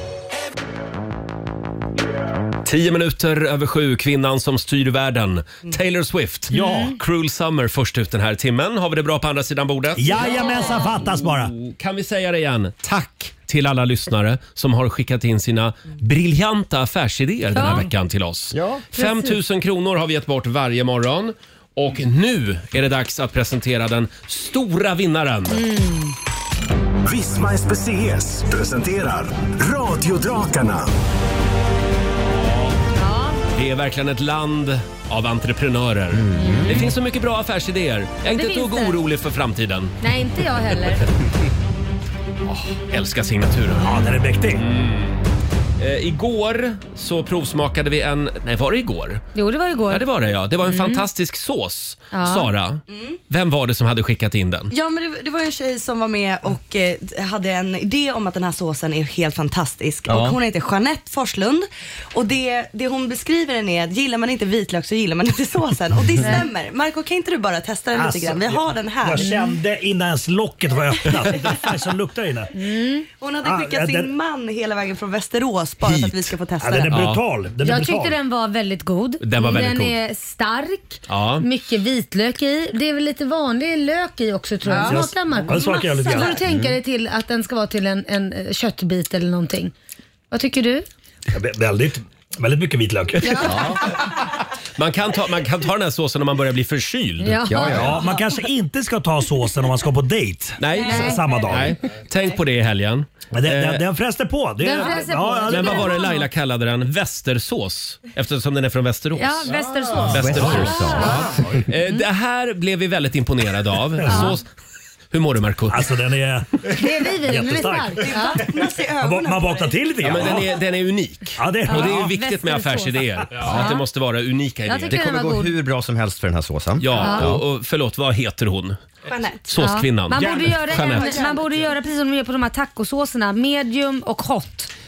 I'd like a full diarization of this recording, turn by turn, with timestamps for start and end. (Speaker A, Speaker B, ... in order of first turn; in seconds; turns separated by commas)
Speaker A: 2.6-25.6, Speaker B: 6.5-7.0, Speaker C: 6.5-6.9, Speaker C: 10.0-11.5, Speaker B: 10.3-10.8, Speaker B: 17.5-17.9, Speaker D: 18.6-18.8, Speaker B: 18.9-19.4, Speaker B: 25.5-26.1, Speaker E: 27.1-30.9, Speaker B: 32.9-33.4, Speaker A: 33.5-40.0, Speaker D: 36.1-36.8, Speaker B: 36.4-36.9, Speaker B: 38.3-39.0, Speaker B: 40.0-41.1, Speaker A: 42.5-45.3, Speaker C: 43.8-44.6, Speaker A: 45.8-49.3, Speaker B: 49.4-50.1, Speaker A: 49.9-54.7, Speaker B: 50.6-51.1, Speaker B: 52.1-52.5, Speaker F: 52.9-53.2, Speaker F: 54.7-69.3, Speaker D: 60.1-60.4, Speaker B: 66.2-66.5, Speaker C: 67.9-72.5, Speaker B: 69.2-69.6, Speaker B: 72.5-73.1, Speaker F: 73.2-77.1, Speaker C: 73.4-74.1, Speaker C: 75.8-78.2, Speaker A: 76.9-77.2, Speaker B: 77.6-89.7, Speaker A: 79.2-80.0, Speaker A: 81.1-81.5, Speaker F: 84.7-85.0, Speaker C: 84.8-86.4, Speaker D: 86.5-86.8, Speaker B: 90.3-90.9, Speaker C: 91.3-93.7, Speaker B: 93.2-93.7, Speaker D: 93.5-93.8, Speaker A: 94.8-97.4, Speaker B: 97.2-98.1, Speaker D: 97.5-98.0, Speaker C: 97.7-101.8, Speaker A: 100.6-103.8, Speaker B: 100.8-101.3, Speaker C: 103.3-106.0, Speaker B: 104.6-106.3, Speaker A: 105.5-114.5, Speaker B: 109.2-111.3, Speaker D: 110.0-111.4, Speaker C: 114.0-114.3, Speaker B: 114.1-114.4, Speaker A: 115.1-115.9, Speaker C: 115.7-118.2, Speaker B: 116.7-118.5, Speaker F: 118.0-119.8, Speaker C: 119.0-120.5, Speaker A: 120.0-125.0, Speaker C: 121.4-122.2, Speaker B: 121.7-123.9, Speaker B: 124.7-125.5, Speaker D: 124.9-127.4, Speaker A: 126.8-128.8, Speaker B: 126.9-127.4, Speaker F: 129.1-129.5, Speaker A: 129.5-131.1, Speaker B: 129.6-134.7, Speaker F: 130.3-131.7